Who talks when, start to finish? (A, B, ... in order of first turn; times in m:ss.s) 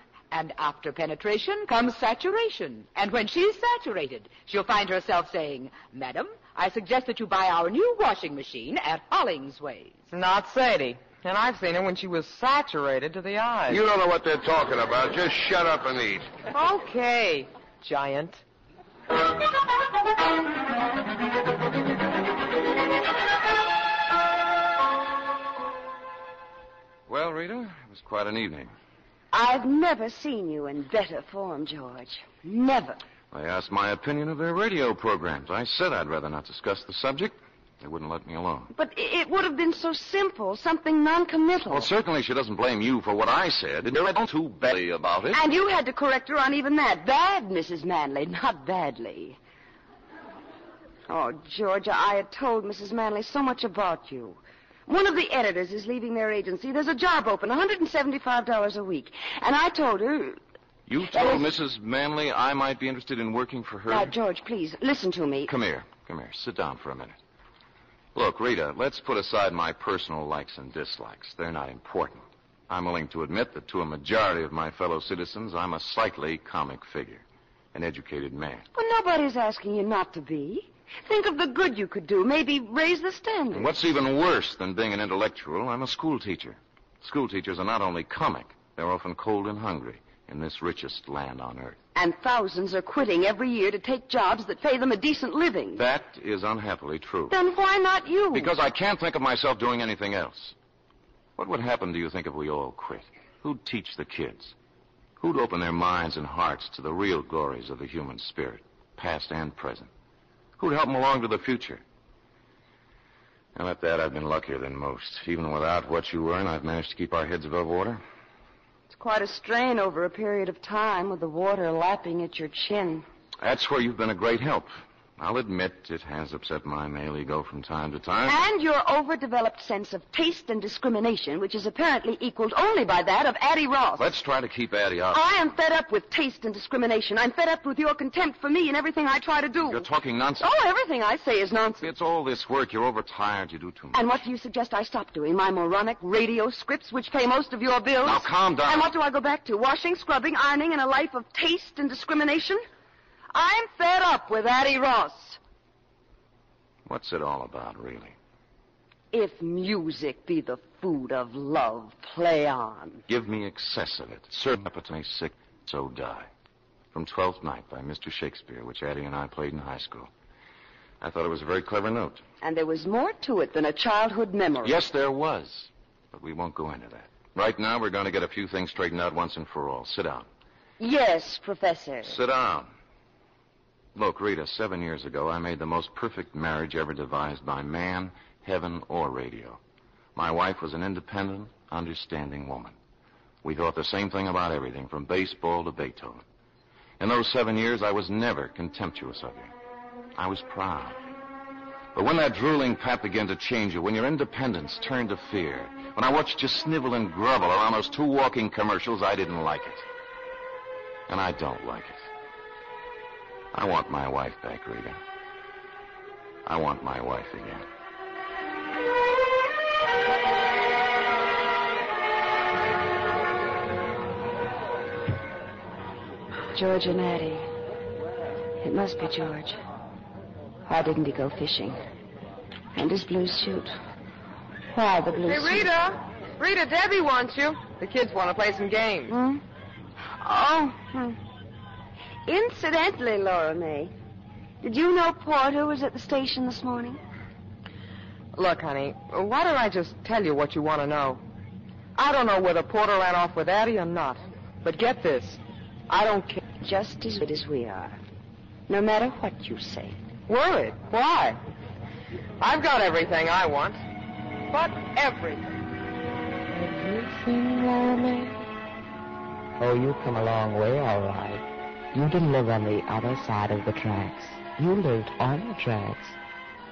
0:00.3-0:10.1 A
0:10.1-0:13.8 B
0:13.7-0:16.3 C
0:16.5-0:18.4 B
0:27.1-0:28.7 D
0:29.3-0:33.0 E
0:33.3-0:38.7 D
0:38.7-0:41.9 E
0:41.7-0:45.4 D
0:45.3-0:49.4 E
0:51.1-1:00.4 E
1:00.9-1:04.1 D
1:01.1-1:01.5 E
1:03.9-1:05.5 E
1:05.5-1:07.2 D
1:08.2-1:17.2 D
1:17.7-1:18.6 D
1:18.7-1:23.8 E
1:23.6-1:31.8 D
1:32.0-1:35.8 E
1:35.8-1:37.4 D
1:38.3-1:40.5 D
1:41.4-1:44.5 D
1:45.2-1:49.9 D
1:50.6-1:51.8 D
1:53.6-1:58.0 D
1:58.9-2:03.1 E
2:03.4-2:08.4 D
2:08.2-2:14.1 E
2:14.0-2:15.2 D
2:15.1-2:19.9 E
2:19.6-2:20.5 D
2:20.4-2:21.9 E
2:21.8-2:24.1 D
2:23.9-2:32.6 E
2:28.0-2:28.9 D
2:33.3-2:35.4 E
2:36.9-2:38.2 D
2:39.1-2:43.0 E
2:43.1-2:46.3 D
2:46.9-2:50.1 D
2:51.0-2:52.2 D
2:52.4-2:54.8 E
2:54.6-3:00.3 D
3:00.8-3:02.2 E
3:02.0-3:02.7 D
3:04.0-3:09.6 D
3:10.2-3:12.8 D
3:13.4-3:16.2 D
3:17.0-3:19.5 D
3:20.2-3:21.0 D
3:21.9-3:29.8 D
3:31.1-3:32.0 D
3:33.5-3:35.0 D
3:36.5-3:37.6 D
3:46.5-3:47.5 E
3:48.6-3:49.6 E
3:50.7-3:51.8 E
3:52.8-3:53.7 E
3:54.7-3:55.7 E
3:55.3-3:59.2 B
3:59.1-3:59.4 E
4:00.2-4:01.2 E
4:02.3-4:03.9 E
4:04.6-4:07.0 E
4:08.4-4:11.2 B
4:12.0-4:16.4 B
4:16.4-4:18.0 E
4:18.7-4:20.0 E
4:20.3-4:21.4 B
4:22.4-4:23.8 B
4:24.5-4:25.6 B
4:26.5-4:28.3 F
4:29.6-4:36.2 F